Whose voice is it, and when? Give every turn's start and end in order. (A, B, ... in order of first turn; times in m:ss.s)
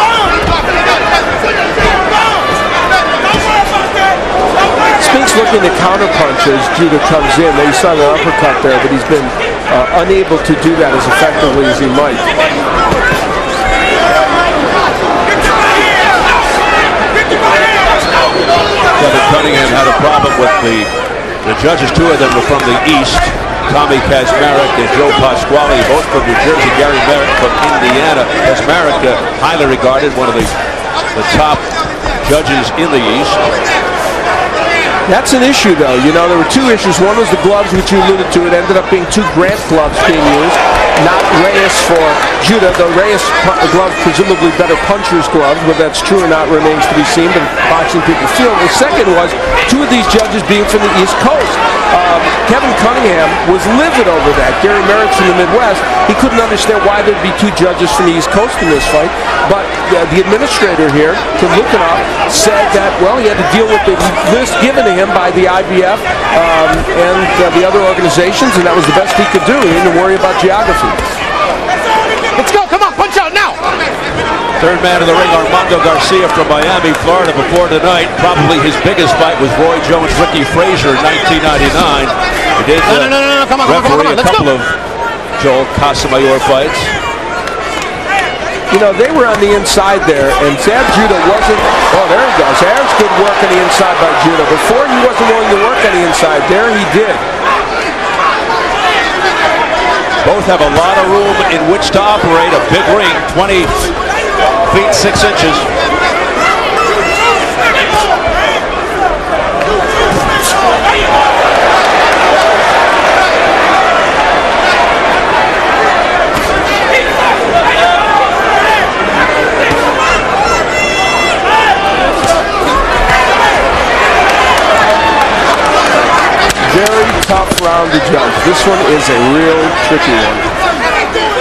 0:05.0-0:12.3 A
0:19.0-0:20.9 B
0:21.4-0:30.5 B
0:31.1-0:31.6 B
0:32.2-0:33.5 B
0:35.1-1:11.1 A
1:12.4-1:13.6 C
1:14.6-1:24.8 B
1:22.9-1:24.5 C
1:25.4-1:26.9 B
1:28.7-1:37.2 A
1:40.2-1:43.9 B
1:44.7-1:45.7 B
2:06.7-2:10.5 A